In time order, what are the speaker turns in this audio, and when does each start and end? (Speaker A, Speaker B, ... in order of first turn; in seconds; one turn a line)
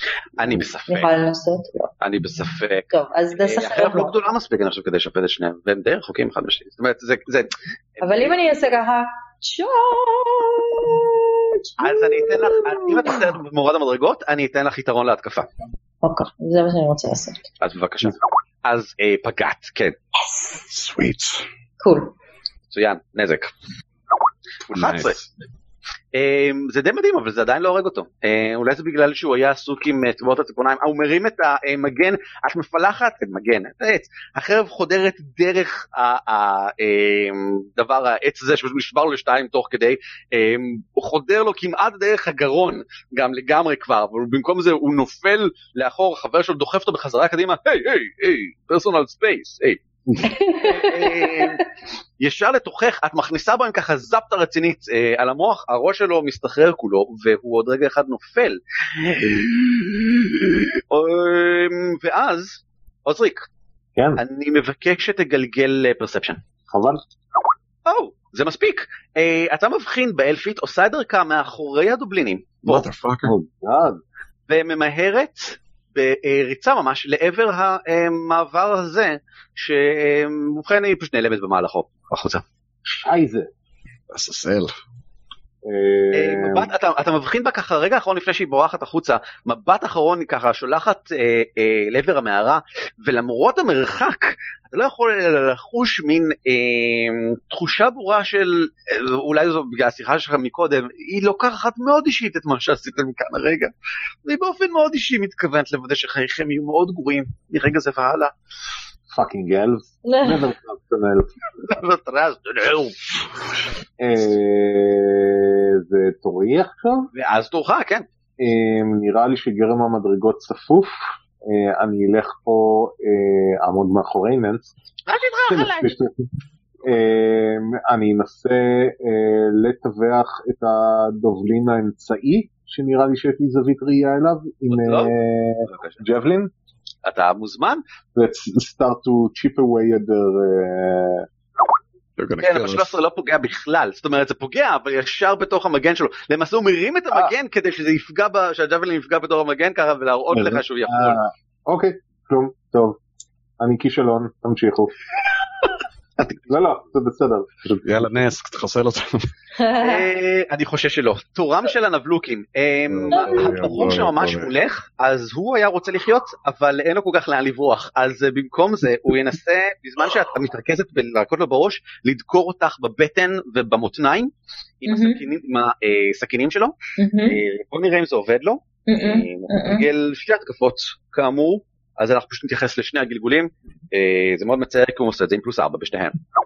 Speaker A: 0.4-1.1
Speaker B: 0.9-1.9
Speaker A: 2.0-8.7
Speaker B: 2.9-4.2
Speaker B: 8.0-13.2
Speaker A: 11.8-15.5
Speaker B: 16.0-17.4
Speaker A: 17.6-20.0
Speaker C: 20.7-21.4
Speaker B: 21.8-22.1
Speaker A: 22.7-23.5
Speaker A: 24.7-25.2
Speaker C: 24.7-25.2
Speaker A: 26.1-49.8
Speaker B: 50.2-51.6
Speaker A: 50.6-51.6
Speaker A: 52.2-63.5
Speaker D: 64.0-64.2
Speaker A: 64.2-66.4
Speaker D: 66.7-67.0
Speaker A: 67.9-72.9
Speaker C: 72.7-73.3
Speaker D: 73.2-74.0
Speaker A: 74.5-82.4
Speaker D: 82.9-83.5
Speaker C: 84.1-84.7
Speaker D: 85.6-86.7
Speaker A: 86.1-103.7
Speaker A: 104.3-108.3
Speaker D: 109.1-111.3
Speaker B: 110.0-110.4
Speaker A: 111.6-113.0
Speaker D: 114.0-117.1
Speaker A: 117.1-118.1
Speaker D: 118.4-124.7
Speaker A: 125.1-125.9
Speaker D: 125.5-126.3
Speaker D: 126.8-136.5
Speaker A: 134.7-135.1
Speaker A: 135.7-136.0
Speaker A: 137.1-137.8
Speaker D: 138.2-141.3
Speaker C: 142.2-142.9
Speaker A: 142.4-151.2
Speaker D: 150.3-153.0
Speaker D: 153.6-154.9
Speaker A: 156.2-156.5
Speaker D: 156.5-158.1
Speaker C: 157.8-159.3
Speaker B: 159.6-160.1
Speaker A: 159.8-186.2
Speaker C: 162.9-164.5
Speaker B: 163.1-163.7
Speaker B: 174.9-175.2
Speaker B: 177.0-177.4
Speaker B: 178.9-179.9